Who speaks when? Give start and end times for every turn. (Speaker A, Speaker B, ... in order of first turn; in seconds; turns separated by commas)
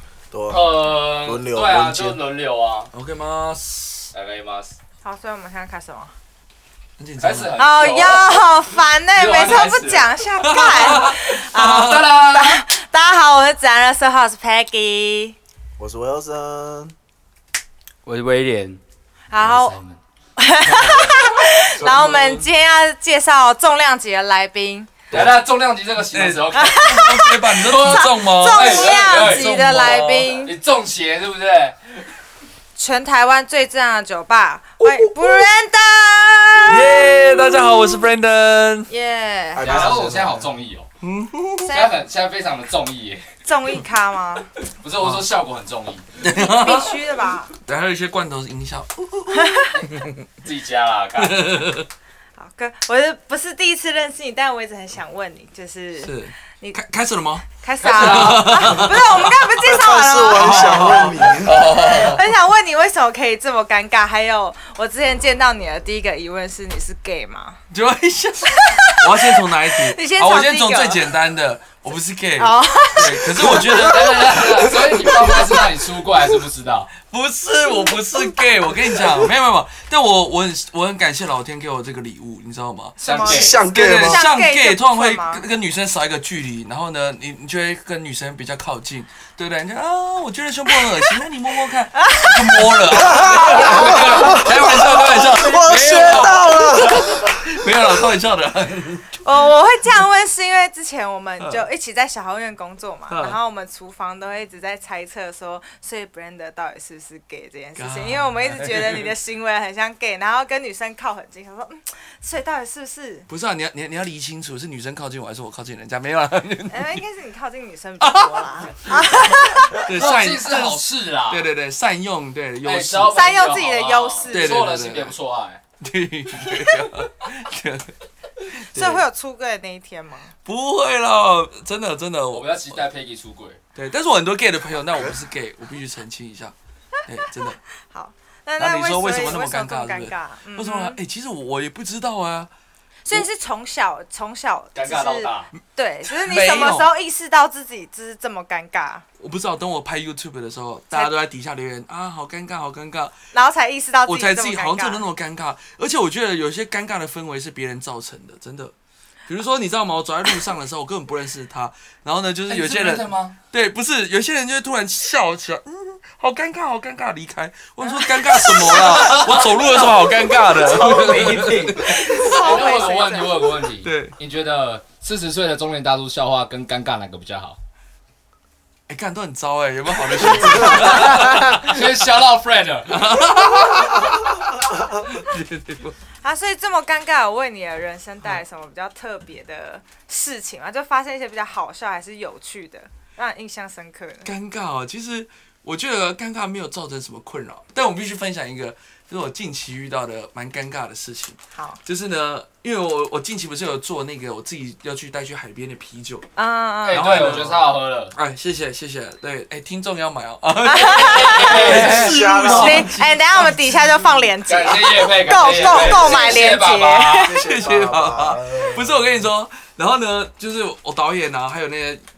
Speaker A: 0.3-2.2, Speaker B: 0.5-2.9, Speaker C: 2.9-4.1, Speaker B: 4.1-4.8, Speaker D: 5.0-6.1, Speaker C: 7.0-7.6, Speaker B: 7.2-8.5, Speaker D: 7.6-15.4, Speaker B: 9.1-10.1, Speaker C: 10.4-12.1, Speaker B: 11.6-12.6, Speaker A: 15.8-16.9, Speaker E: 18.1-18.8, Speaker D: 19.3-19.8, Speaker B: 19.4-20.0, Speaker D: 20.4-25.0, Speaker B: 20.7-21.1, Speaker C: 21.8-22.5, Speaker C: 25.1-25.4, Speaker B: 25.1-26.9, Speaker C: 26.0-30.3, Speaker D: 26.5-30.5, Speaker B: 27.6-31.8, Speaker D: 32.8-37.9, Speaker C: 34.8-35.5, Speaker C: 36.7-38.9, Speaker D: 38.9-40.0, Speaker A: 39.5-40.5, Speaker B: 39.6-40.9, Speaker C: 41.0-41.7, Speaker D: 41.6-41.9, Speaker B: 41.7-43.3, Speaker D: 43.5-44.5, Speaker B: 44.8-46.1, Speaker C: 46.2-50.1, Speaker D: 46.4-47.5, Speaker D: 49.3-49.8, Speaker B: 49.8-51.4, Speaker C: 51.2-51.9, Speaker D: 52.4-56.8, Speaker C: 56.0-59.3, Speaker D: 57.6-67.6, Speaker B: 57.8-58.8, Speaker A: 59.5-61.7, Speaker C: 60.3-62.2, Speaker C: 67.7-74.5, Speaker D: 68.7-69.0, Speaker D: 69.9-71.1, Speaker D: 72.4-74.4, Speaker B: 73.4-76.9, Speaker C: 77.0-83.0, Speaker D: 83.0-85.4, Speaker B: 83.0-83.6, Speaker A: 83.1-84.2, Speaker C: 83.7-99.2, Speaker D: 92.0-93.2, Speaker A: 92.9-97.9, Speaker B: 93.6-94.4, Speaker D: 94.2-95.7, Speaker D: 99.2-113.3, Speaker C: 103.1-103.4, Speaker C: 107.8-109.1, Speaker C: 113.3-117.0, Speaker D: 116.7-119.8, Speaker C: 118.0-123.2, Speaker B: 119.7-121.5, Speaker B: 122.6-125.6, Speaker D: 123.1-124.6, Speaker C: 124.3-125.1, Speaker C: 125.8-127.9, Speaker D: 126.4-126.8, Speaker C: 128.4-129.0, Speaker D: 128.7-130.3, Speaker C: 130.4-132.8, Speaker B: 132.3-133.6, Speaker C: 133.8-136.5, Speaker C: 137.1-137.6, Speaker D: 137.9-141.0, Speaker C: 138.6-142.5, Speaker D: 143.1-149.0, Speaker B: 144.8-145.5, Speaker C: 146.1-146.9, Speaker C: 149.2-153.2, Speaker D: 153.3-155.0, Speaker C: 154.1-158.7, Speaker C: 159.3-172.5, Speaker B: 162.5-163.4, Speaker D: 167.9-169.1, Speaker E: 170.4-172.2, Speaker D: 172.1-173.6, Speaker B: 172.2-177.6, Speaker C: 173.8-174.2, Speaker C: 178.9-181.9, Speaker B: 180.5-183.3, Speaker C: 182.9-184.6, Speaker C: 185.1-186.0, Speaker D: 186.2-194.3, Speaker C: 194.2-206.3, Speaker D: 206.4-207.4, Speaker B: 206.8-208.1, Speaker C: 206.9-214.1, Speaker D: 210.7-211.8, Speaker B: 210.9-212.7, Speaker A: 211.4-212.9, Speaker D: 212.5-217.4, Speaker B: 214.5-217.3, Speaker C: 215.6-216.1, Speaker A: 217.2-219.0, Speaker C: 217.3-222.0